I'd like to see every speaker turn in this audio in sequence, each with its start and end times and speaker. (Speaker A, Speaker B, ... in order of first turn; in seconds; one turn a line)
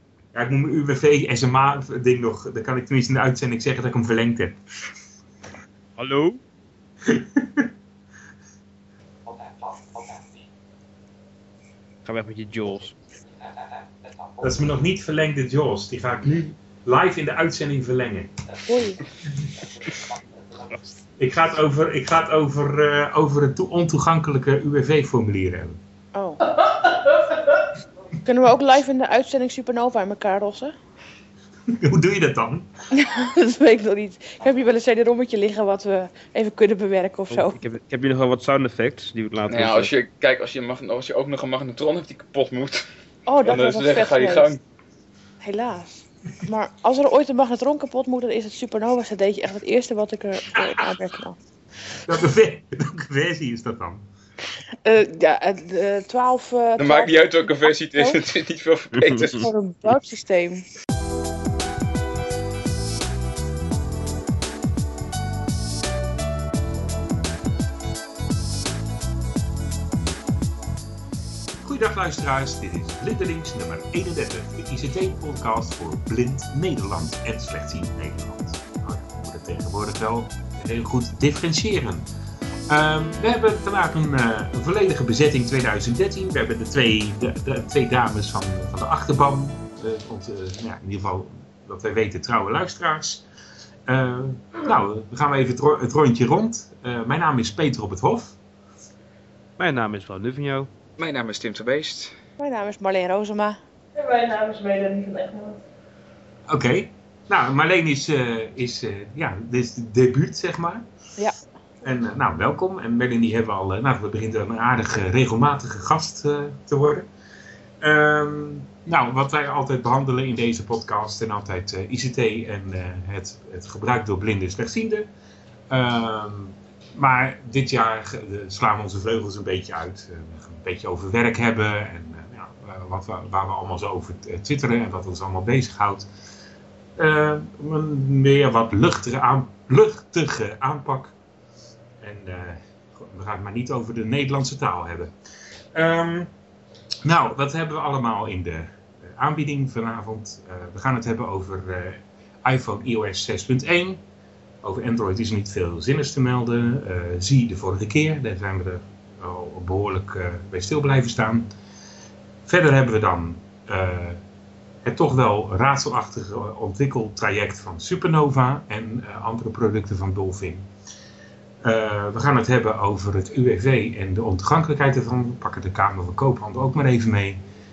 Speaker A: 0.3-4.6
Speaker B: 6.0-6.4
Speaker A: 7.1-7.7
Speaker B: 12.1-13.0
Speaker A: 14.4-18.3
Speaker C: 18.7-19.0
Speaker A: 21.2-25.8
Speaker C: 26.1-26.4
Speaker D: 26.4-27.7
Speaker C: 28.2-30.7
Speaker A: 31.7-32.7
Speaker C: 32.9-37.6
Speaker B: 37.3-39.9
Speaker E: 39.5-42.9
Speaker C: 43.3-44.5
Speaker E: 43.4-44.6
Speaker C: 45.4-45.9
Speaker C: 46.4-51.4
Speaker A: 50.5-50.9
Speaker A: 52.1-54.1
Speaker C: 54.9-58.2
Speaker E: 56.8-59.5
Speaker B: 59.0-59.5
Speaker C: 59.3-60.7
Speaker A: 71.6-82.1
Speaker A: 82.7-93.2
Speaker A: 93.9-98.3
Speaker B: 99.6-100.7
Speaker E: 101.0-102.1
Speaker C: 102.4-103.6
Speaker D: 104.0-105.6
Speaker A: 106.5-110.9
Speaker A: 111.8-117.1
Speaker A: 117.8-125.1
Speaker A: 125.7-136.1
Speaker A: 137.0-141.2
Speaker A: 142.0-145.1
Speaker A: 145.7-146.3
Speaker A: 147.0-154.0
Speaker A: 154.6-161.5
Speaker A: 162.5-164.2
Speaker A: 164.8-170.7
Speaker A: 171.6-177.4